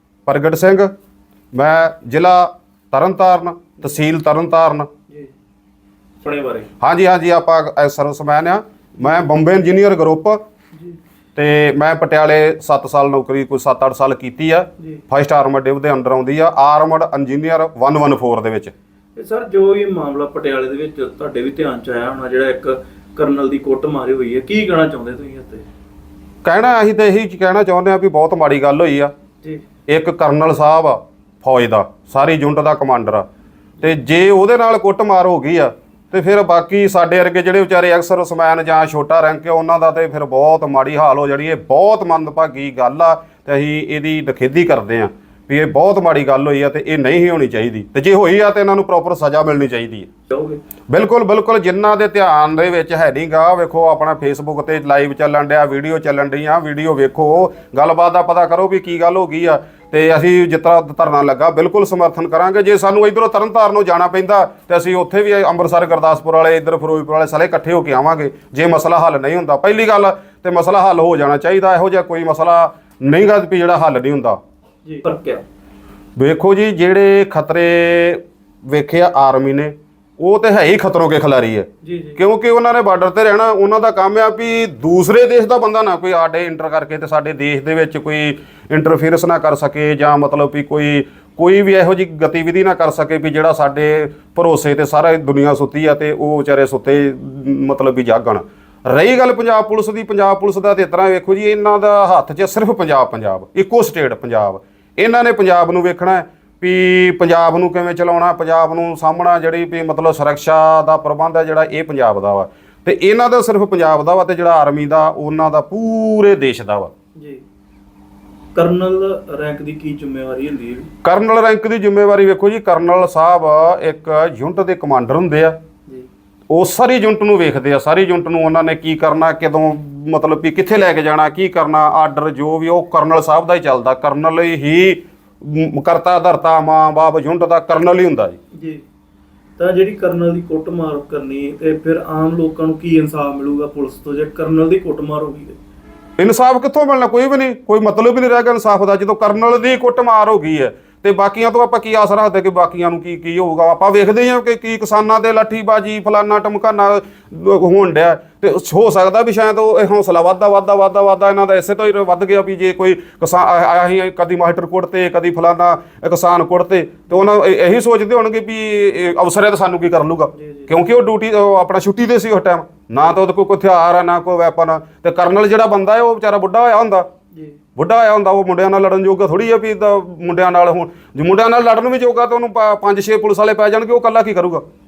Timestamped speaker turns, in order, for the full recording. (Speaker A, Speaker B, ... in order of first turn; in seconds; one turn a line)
Speaker A: 0.2-0.9
Speaker A: 1.5-4.9
Speaker B: 6.2-6.7
Speaker A: 6.8-10.4
Speaker A: 11.3-18.7
Speaker B: 19.1-25.6
Speaker A: 26.4-29.1
Speaker A: 29.9-33.2
Speaker A: 33.8-50.1
Speaker B: 50.3-50.6
Speaker A: 50.9-74.4
Speaker B: 74.8-75.4
Speaker A: 76.2-116.9
Speaker B: 81.8-82.2
Speaker B: 117.2-117.4
Speaker B: 118.5-120.9
Speaker A: 121.0-125.5
Speaker A: 126.5-138.4
Speaker B: 138.6-138.8
Speaker B: 139.6-145.6
Speaker A: 146.2-177.1
Speaker B: 170.3-170.7
Speaker A: 177.8-184.6